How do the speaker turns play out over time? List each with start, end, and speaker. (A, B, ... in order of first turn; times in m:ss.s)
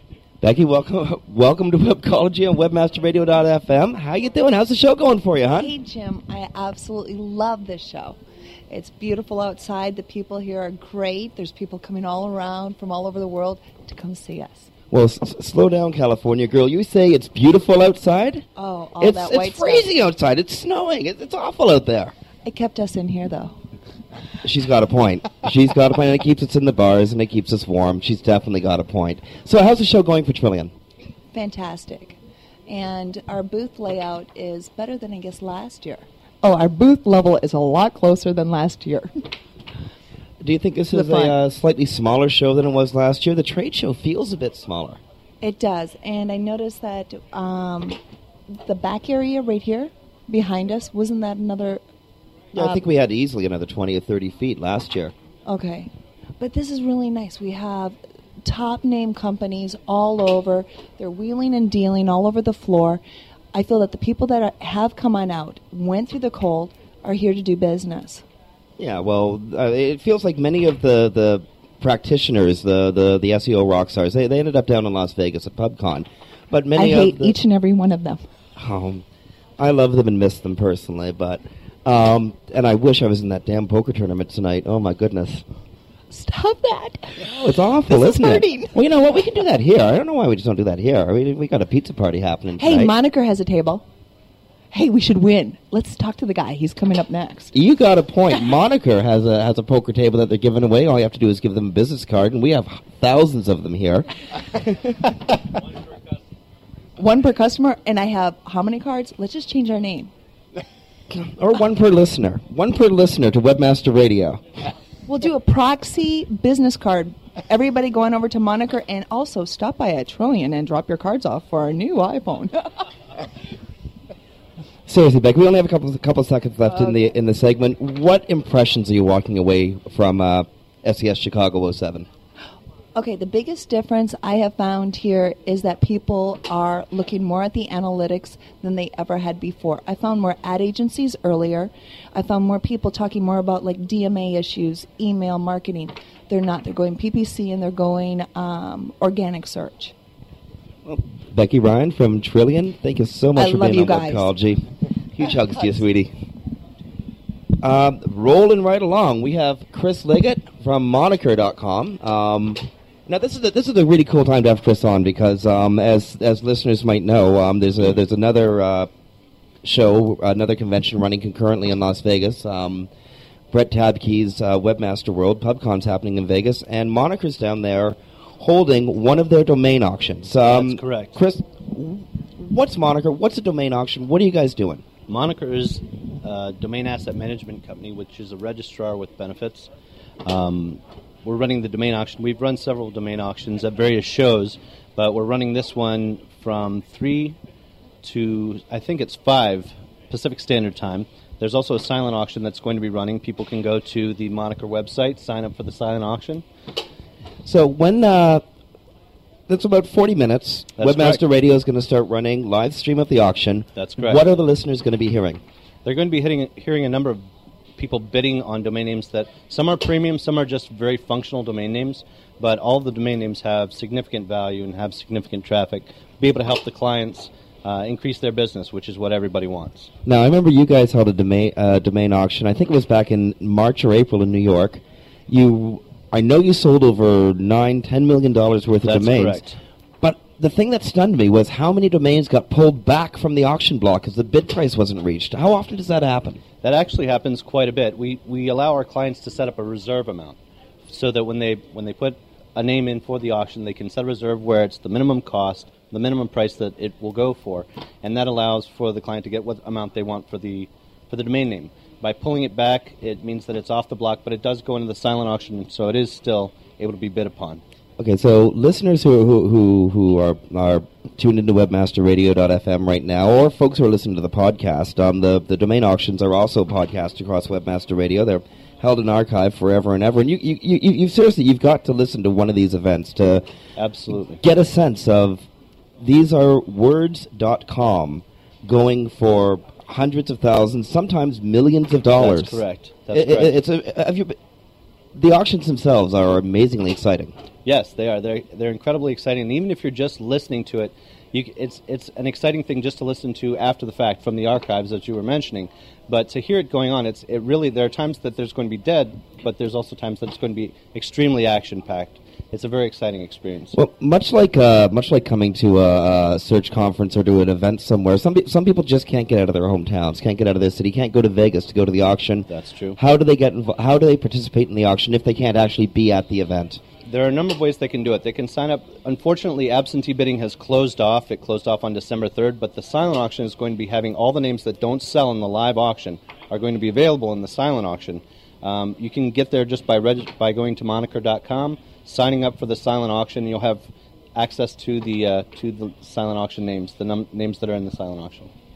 0:00.4-0:05.7 A
0:05.5-0:08.2 B
0:08.7-0:14.7 B
0:14.9-0:18.5 A
0:18.6-0:19.9 B
0:19.0-0:22.1 A
0:22.4-0:23.6 B
0:24.4-0:30.7 A
0:31.3-0:36.0 B
0:36.4-0:39.2 C
0:40.4-0:45.0 A
0:40.9-0:41.3 C
0:45.4-0:48.0 B
0:48.5-0:51.8 B
0:52.5-0:55.1 A
0:52.6-0:52.8 B
0:55.4-1:03.0 B
1:03.5-1:08.2 B
1:08.8-1:17.4 A
1:16.7-1:18.2 B
1:18.6-1:19.0 A
1:19.6-1:25.4 A
1:26.1-1:28.8 B
1:27.4-1:32.9 A
1:32.6-1:33.8 B
1:34.7-1:37.5 B
1:37.5-1:45.1 A
1:47.0-1:50.1 B
1:51.1-1:54.4 A
1:55.1-2:02.7 B
2:04.8-2:12.1 A
2:12.9-2:29.9 B
2:30.8-2:36.1 A
2:33.4-2:34.3 B
2:37.6-2:48.9 A
2:49.6-2:52.9 A
2:53.5-3:04.8 A
3:00.4-3:01.2 D
3:05.1-3:09.7 D
3:10.2-3:17.4 D
3:18.0-3:26.4 D
3:27.4-3:28.4 A
3:29.5-3:35.4 A
3:30.8-3:31.2 D
3:33.8-3:34.2 D
3:35.8-3:49.9 D
3:50.0-3:59.4 A
3:58.8-3:59.5 D
4:00.0-4:06.4 A
4:06.6-4:27.6 D
4:28.0-4:43.4 A
4:43.8-4:44.4 D
4:44.4-4:45.5 A
4:46.0-4:54.4 A
4:52.1-4:53.6 D
4:55.1-4:57.3 A
4:57.6-5:13.8 D
5:13.7-5:26.8 A
5:22.5-5:23.0 D
5:27.1-5:48.5 D